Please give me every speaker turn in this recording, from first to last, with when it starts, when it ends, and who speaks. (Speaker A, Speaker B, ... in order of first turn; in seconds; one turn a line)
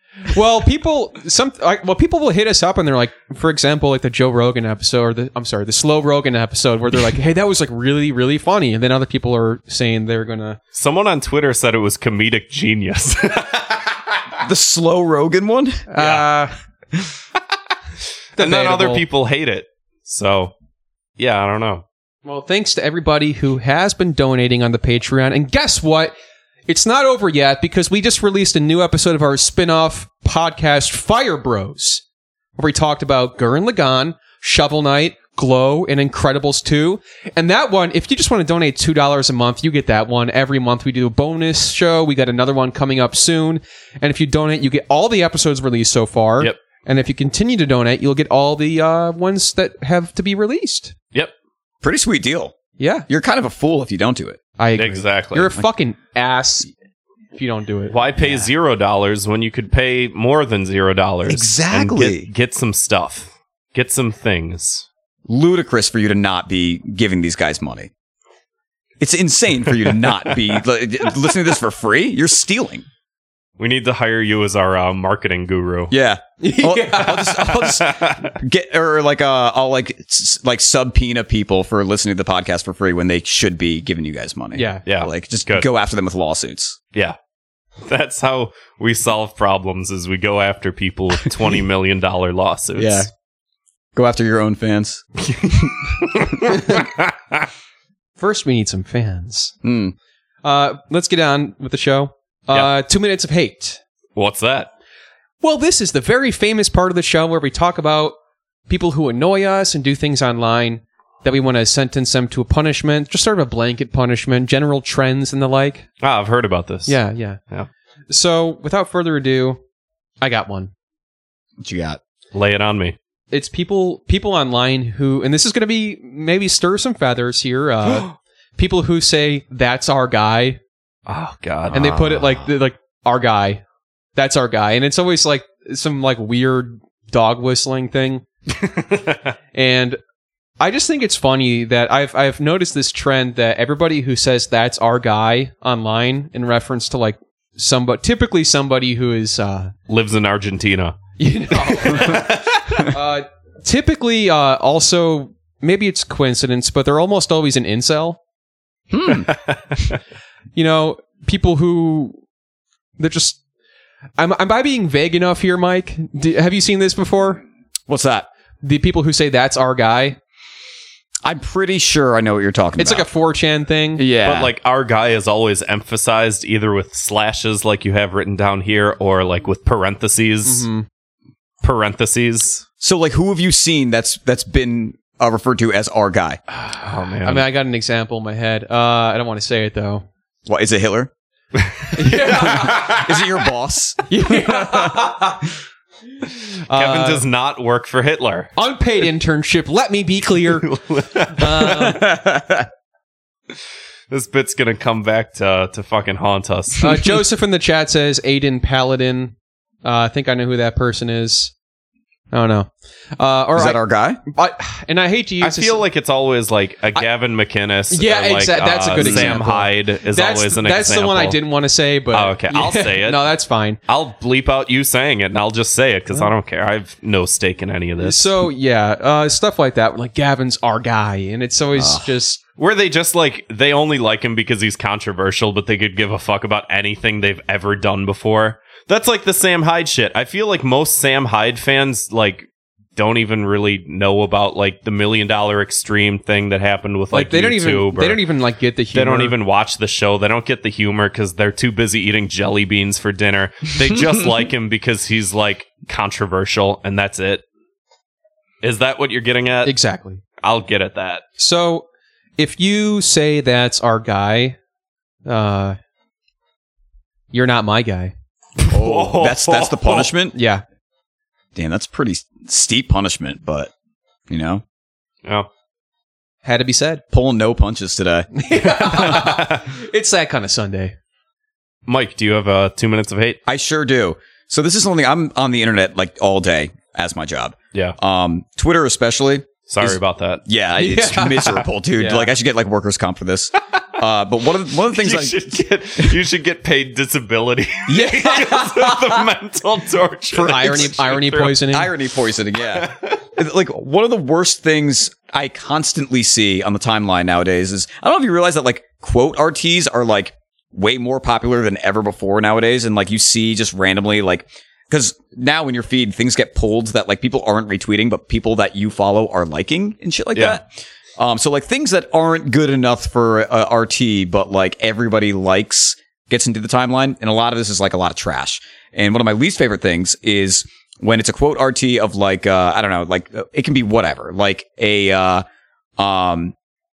Speaker A: 0.3-10.6
Speaker B: 10.7-13.9
Speaker C: 14.4-15.9
Speaker A: 15.9-16.5
Speaker B: 16.0-16.2
Speaker A: 18.4-19.0
Speaker B: 18.4-20.5
Speaker B: 21.2-21.8
Speaker A: 22.2-26.1
Speaker A: 26.7-32.0
Speaker A: 32.6-51.0
Speaker C: 51.8-52.5
Speaker A: 52.8-53.1
Speaker C: 53.1-54.4
Speaker A: 54.6-56.7
Speaker B: 54.8-55.6
Speaker A: 57.4-58.5
Speaker B: 57.9-64.9
Speaker C: 61.3-62.3
Speaker C: 65.3-67.9
Speaker C: 69.0-72.9
Speaker B: 73.6-75.9
Speaker C: 75.9-86.8
Speaker A: 76.4-77.4
Speaker B: 77.5-78.3
Speaker A: 84.5-84.8
Speaker B: 84.9-85.7
Speaker B: 87.8-93.1
Speaker C: 92.8-93.1
Speaker C: 94.0-95.8
Speaker B: 95.5-97.4
Speaker A: 98.2-99.5
Speaker C: 99.6-100.0
Speaker A: 100.4-103.8
Speaker B: 104.2-104.7
Speaker A: 105.4-108.2
Speaker A: 108.7-115.9
Speaker B: 116.0-117.0
Speaker A: 116.9-117.4
Speaker A: 118.1-119.6
Speaker A: 120.2-120.7
Speaker C: 121.6-122.0
Speaker B: 122.3-123.0
Speaker A: 123.3-130.6
Speaker B: 127.9-128.1
Speaker B: 131.1-132.3
Speaker A: 131.7-133.6
Speaker A: 134.2-138.2
Speaker B: 138.7-139.2
Speaker A: 139.5-140.0
Speaker A: 140.6-149.7
Speaker B: 149.9-151.0
Speaker A: 151.2-158.2
Speaker B: 151.5-152.8
Speaker C: 158.9-159.3
Speaker B: 159.2-159.9
Speaker A: 160.6-162.2
Speaker A: 163.0-163.4
Speaker A: 164.2-167.4
Speaker C: 167.9-168.3
Speaker A: 168.6-170.2
Speaker C: 171.2-173.1
Speaker A: 172.8-174.0
Speaker C: 174.0-174.5
Speaker B: 174.2-180.7
Speaker A: 180.4-180.9
Speaker B: 181.6-182.6
Speaker C: 182.8-186.4
Speaker A: 186.6-190.1
Speaker B: 186.7-187.5
Speaker C: 190.5-191.1
Speaker B: 191.6-192.7
Speaker A: 191.9-193.0
Speaker C: 192.3-195.1
Speaker A: 194.1-195.4
Speaker A: 196.7-197.2
Speaker B: 196.7-198.5
Speaker A: 198.6-200.7
Speaker B: 200.5-201.9
Speaker A: 201.3-202.0
Speaker C: 201.7-202.7
Speaker B: 204.1-207.2
Speaker A: 206.8-211.5
Speaker A: 212.3-213.8
Speaker C: 213.6-214.2
Speaker A: 214.3-215.8
Speaker B: 215.4-221.4
Speaker A: 217.9-223.8
Speaker C: 218.9-219.4
Speaker B: 222.1-223.3
Speaker B: 223.9-228.3
Speaker A: 228.0-232.4
Speaker C: 231.8-232.1
Speaker B: 232.6-248.2
Speaker A: 247.1-249.3
Speaker B: 248.9-257.4
Speaker B: 258.6-259.8
Speaker A: 259.6-260.2
Speaker B: 260.4-261.2
Speaker A: 261.4-261.9
Speaker A: 262.4-264.6
Speaker A: 265.3-265.8
Speaker A: 267.3-268.1
Speaker B: 268.6-270.1
Speaker C: 268.7-270.4
Speaker A: 270.4-270.6
Speaker C: 271.6-273.7
Speaker C: 274.3-274.6
Speaker A: 276.4-277.0
Speaker C: 277.1-278.3
Speaker A: 278.4-280.9
Speaker B: 278.9-279.6
Speaker B: 281.9-283.4
Speaker C: 283.5-296.1
Speaker B: 289.7-290.4
Speaker A: 290.8-292.3
Speaker B: 294.9-301.6
Speaker C: 297.9-299.2
Speaker A: 300.3-301.9
Speaker C: 300.6-300.9
Speaker C: 301.6-335.5
Speaker B: 302.7-303.2
Speaker C: 336.0-336.6